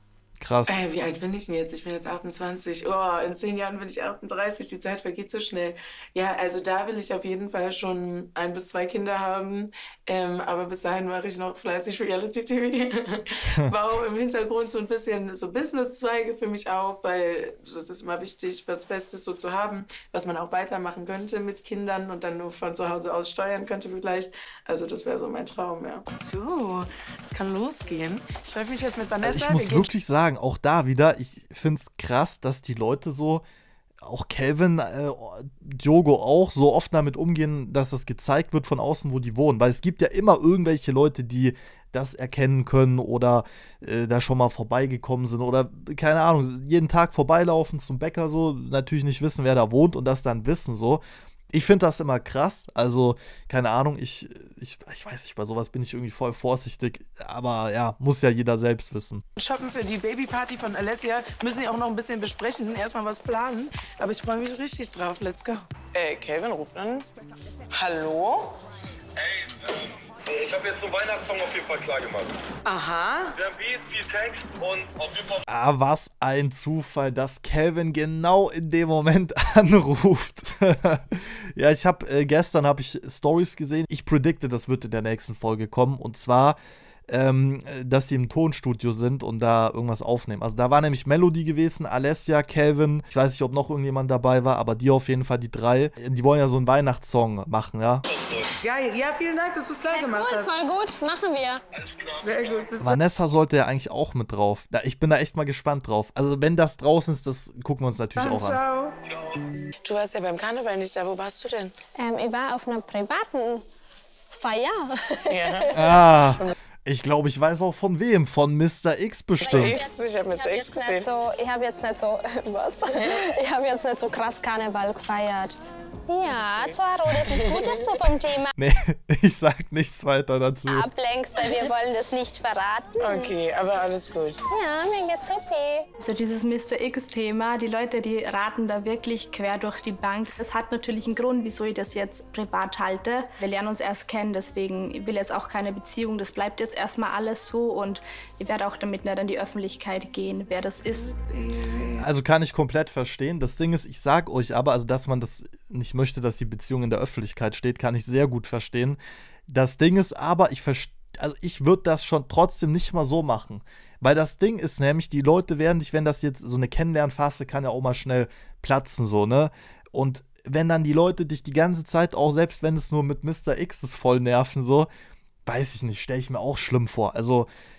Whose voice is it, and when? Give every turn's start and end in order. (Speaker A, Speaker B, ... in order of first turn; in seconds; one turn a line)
Speaker A: 0.4-0.8
Speaker B: 0.7-29.9
Speaker A: 29.2-33.4
Speaker A: 34.0-59.2
Speaker B: 59.4-67.1
Speaker B: 67.7-68.6
Speaker C: 69.2-69.7
Speaker C: 70.2-72.3
Speaker B: 72.6-73.4
Speaker C: 73.4-75.4
Speaker A: 75.5-86.6
Speaker A: 87.1-98.0
Speaker B: 98.6-100.5
Speaker D: 99.9-101.6
Speaker B: 102.1-103.0
Speaker A: 102.8-108.6
Speaker B: 108.2-109.0
Speaker B: 109.8-111.7
Speaker D: 112.0-113.6
Speaker D: 114.3-115.8
Speaker B: 115.3-116.5
Speaker A: 115.7-119.8
Speaker B: 119.4-121.1
Speaker D: 119.5-128.5
Speaker B: 126.2-127.8
Speaker A: 128.6-130.9
Speaker D: 130.7-133.3
Speaker B: 133.0-134.4
Speaker D: 134.5-135.8
Speaker E: 136.0-152.0
Speaker A: 152.0-174.9
Speaker A: 175.4-177.5